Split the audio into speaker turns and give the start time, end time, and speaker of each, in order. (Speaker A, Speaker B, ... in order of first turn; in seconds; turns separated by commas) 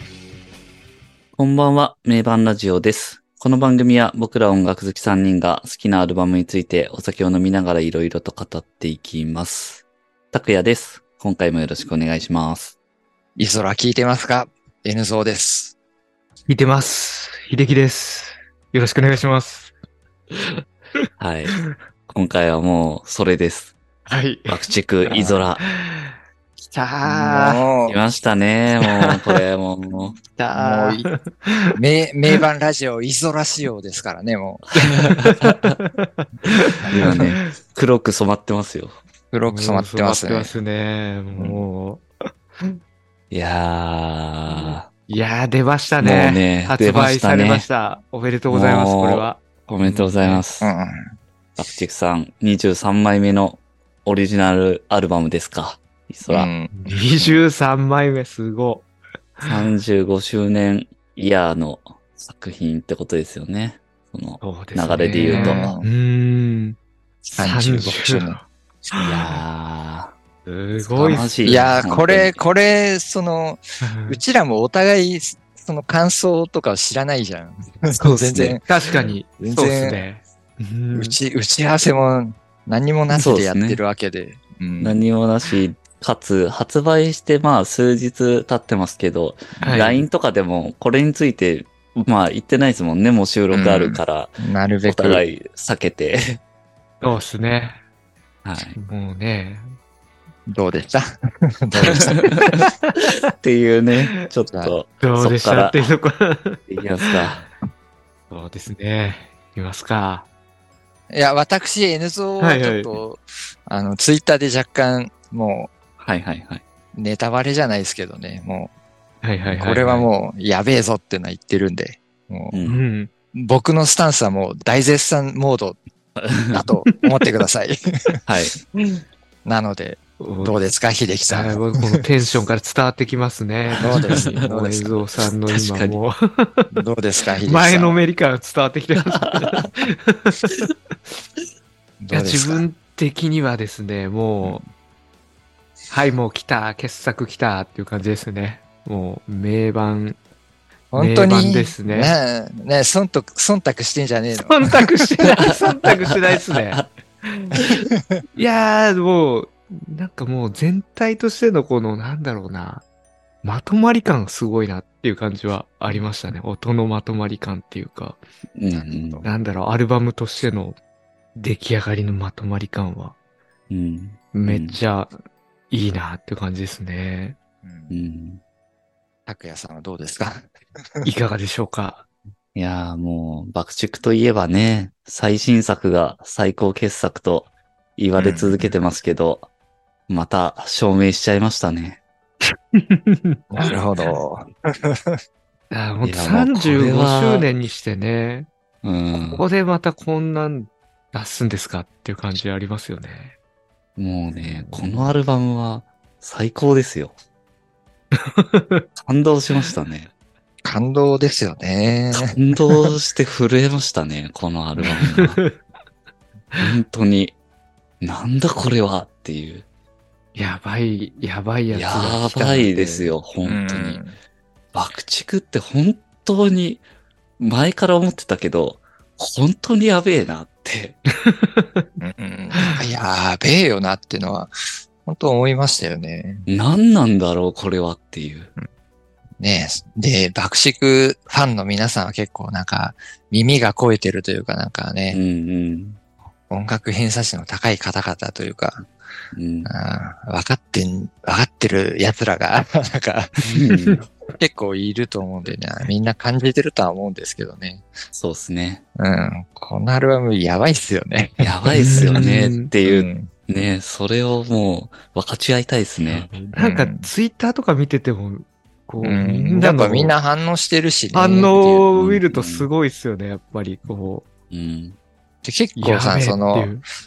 Speaker A: 1.4-12.8, Speaker B: 13.4-15.8, Speaker C: 16.5-19.7, Speaker C: 20.3-21.8, Speaker A: 21.2-21.6, Speaker A: 22.1-23.8, Speaker C: 24.1-26.2, Speaker A: 24.5-25.6, Speaker B: 25.1-25.4, Speaker C: 26.7-27.7, Speaker B: 27.1-28.0, Speaker A: 27.4-30.2, Speaker C: 28.8-29.4, Speaker C: 30.2-31.8, Speaker B: 30.5-31.1, Speaker B: 31.8-34.8, Speaker A: 34.7-35.8, Speaker C: 34.8-37.5, Speaker A: 36.9-39.0, Speaker B: 39.3-40.5, Speaker C: 39.5-42.0, Speaker B: 41.4-41.7, Speaker A: 43.3-44.9, Speaker C: 44.5-50.4, Speaker A: 46.0-47.7, Speaker A: 48.5-50.7, Speaker B: 50.6-51.1, Speaker A: 51.5-56.5, Speaker B: 56.3-57.4, Speaker C: 56.7-58.9, Speaker C: 59.4-59.6, Speaker A: 59.4-65.8, Speaker C: 64.4-66.8, Speaker B: 65.3-65.9, Speaker B: 67.2-68.4, Speaker C: 67.4-69.4, Speaker A: 69.0-70.1, Speaker C: 70.4-71.6, Speaker A: 70.9-72.4, Speaker B: 71.4-78.7, Speaker C: 73.8-74.2, Speaker A: 78.0-78.6, Speaker C: 78.4-81.2, Speaker B: 79.4-80.0, Speaker B: 80.9-85.0, Speaker A: 83.1-83.8, Speaker A: 84.8-96.4, Speaker C: 89.6-90.0, Speaker B: 93.5-95.2, Speaker C: 97.0-97.8, Speaker A: 98.4-98.8, Speaker C: 98.8-99.7, Speaker B: 100.5-102.2, Speaker C: 101.9-103.1, Speaker A: 101.9-105.9, Speaker B: 104.5-104.8, Speaker C: 105.0-107.4, Speaker A: 106.7-107.5, Speaker C: 108.3-110.3, Speaker B: 111.1-115.7, Speaker C: 112.4-113.0, Speaker A: 116.0-116.6, Speaker B: 116.9-118.7, Speaker C: 119.2-120.1, Speaker B: 119.5-122.6, Speaker A: 122.5-122.8, Speaker C: 122.7-123.1, Speaker B: 123.3-125.8, Speaker A: 126.2-126.7, Speaker B: 126.4-128.2, Speaker A: 128.3-128.6, Speaker B: 129.4-132.0, Speaker C: 130.2-130.5, Speaker C: 131.3-136.8, Speaker B: 133.8-135.1, Speaker A: 133.9-134.4, Speaker A: 135.5-136.0, Speaker B: 136.7-138.0, Speaker C: 137.5-140.5, Speaker A: 139.1-139.7, Speaker B: 142.0-142.7, Speaker C: 142.1-144.6, Speaker C: 145.9-150.2, Speaker B: 150.9-155.1, Speaker C: 151.0-152.2, Speaker C: 154.4-157.6, Speaker A: 156.5-156.9, Speaker B: 157.7-158.2, Speaker C: 158.3-162.8, Speaker C: 163.4-168.2, Speaker A: 168.6-169.2, Speaker B: 168.7-169.3, Speaker C: 169.2-170.8, Speaker C: 171.3-173.2, Speaker A: 173.7-174.8, Speaker C: 174.3-175.1, Speaker C: 175.7-177.4, Speaker B: 177.6-178.0, Speaker A: 177.9-178.4, Speaker B: 179.3-181.1, Speaker C: 181.0-182.1, Speaker A: 182.6-189.5, Speaker B: 188.2-188.8, Speaker A: 190.1-192.0, Speaker C: 192.7-193.4, Speaker B: 193.5-195.2, Speaker C: 195.7-198.5, Speaker A: 196.0-197.5, Speaker A: 198.8-199.5, Speaker C: 199.2-203.4, Speaker A: 204.0-207.2, Speaker C: 204.4-205.2, Speaker C: 208.2-208.8, Speaker A: 209.0-210.1, Speaker B: 210.6-212.9, Speaker A: 212.1-215.4, Speaker C: 215.1-215.6, Speaker A: 216.6-217.3, Speaker A: 218.0-219.7, Speaker C: 220.3-223.1, Speaker A: 221.7-224.0, Speaker B: 223.4-224.2, Speaker A: 224.7-226.8, Speaker A: 227.4-231.0, Speaker C: 231.2-231.9, Speaker B: 232.0-234.5, Speaker B: 235.1-236.5, Speaker A: 236.5-238.5, Speaker B: 239.4-245.2, Speaker A: 245.1-246.0, Speaker B: 246.5-248.9, Speaker A: 249.3-249.7, Speaker B: 249.7-253.8, Speaker A: 253.4-254.0, Speaker B: 254.4-257.9, Speaker A: 258.1-258.8, Speaker B: 259.0-262.2, Speaker A: 261.4-266.4, Speaker C: 261.8-262.7, Speaker B: 262.8-263.3, Speaker C: 266.0-270.2, Speaker B: 266.5-267.1, Speaker B: 269.0-271.9, Speaker C: 271.1-274.2, Speaker A: 271.9-272.7, Speaker A: 274.5-275.0, Speaker B: 275.4-276.7, Speaker C: 275.8-276.8